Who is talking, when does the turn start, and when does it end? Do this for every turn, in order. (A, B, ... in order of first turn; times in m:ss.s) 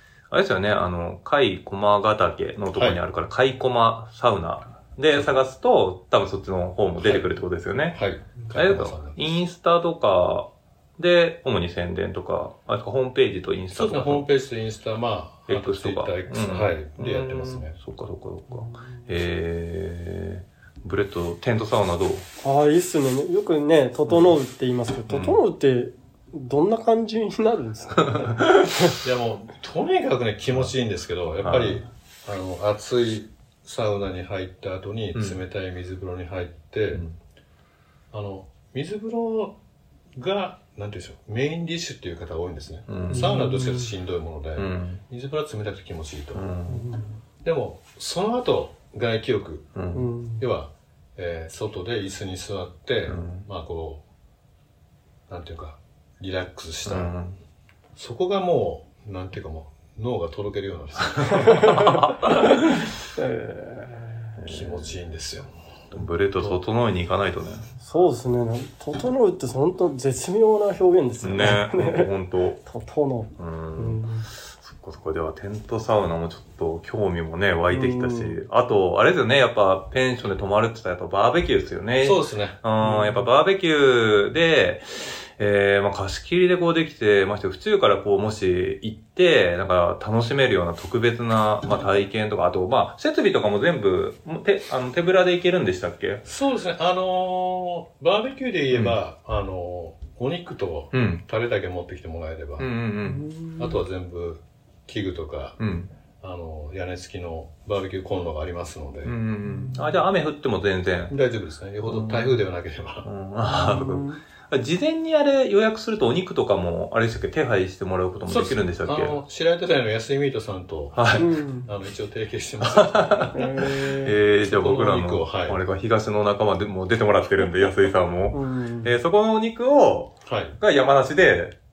0:00.3-0:08.0 A
0:02.7-0:03.0 B
0:07.0-0:07.3 B
0:07.9-0:09.4 B
0:08.5-0:14.3 A
0:13.7-0:17.8 B
0:15.5-0:22.3 A
0:22.4-0:28.9 C
0:25.1-0:25.4 A
0:29.0-0:37.0 B
0:31.4-0:31.8 A
0:38.1-0:39.6 B
0:40.2-0:46.6 B
0:42.9-0:43.4 A
0:43.1-0:43.9 C
0:44.6-0:45.0 A
0:46.3-0:46.9 A
0:46.7-0:47.1 C
0:47.4-0:49.7 B
0:49.8-0:50.1 A
0:49.9-0:50.4 C
0:50.4-0:54.0 B
0:53.1-0:53.5 A
0:55.3-0:57.1 B
0:56.8-0:57.4 A
0:58.0-1:01.8 B
1:01.3-1:02.9 A
1:01.5-1:04.3 C
1:04.4-1:04.9 A
1:04.5-1:05.5 B
1:05.9-1:07.7 A
1:06.3-1:06.6 B
1:07.8-1:12.1 C
1:11.2-1:12.6 A
1:12.6-1:14.3 C
1:13.4-1:24.9 A
1:17.7-1:18.4 C
1:22.0-1:22.6 B
1:22.8-1:23.2 C
1:25.4-1:36.2 A
1:36.2-1:42.7 B
1:38.7-1:39.0 A
1:40.9-1:41.2 A
1:42.6-1:43.3 A
1:43.0-1:43.8 C
1:43.6-1:45.6 B
1:45.6-1:45.9 A
1:46.2-1:49.1 B
1:49.0-1:51.1 A
1:49.5-1:49.9 C
1:51.1-1:53.1 B
1:51.9-1:52.4 A
1:53.0-1:59.2 A
1:53.5-1:54.2 C
1:58.3-2:03.4 B
2:00.9-2:01.3 A
2:01.2-2:01.7 C
2:02.7-2:11.6 A
2:03.3-2:04.2 C
2:04.4-2:05.6 B
2:08.3-2:08.9 C
2:10.2-2:10.6 B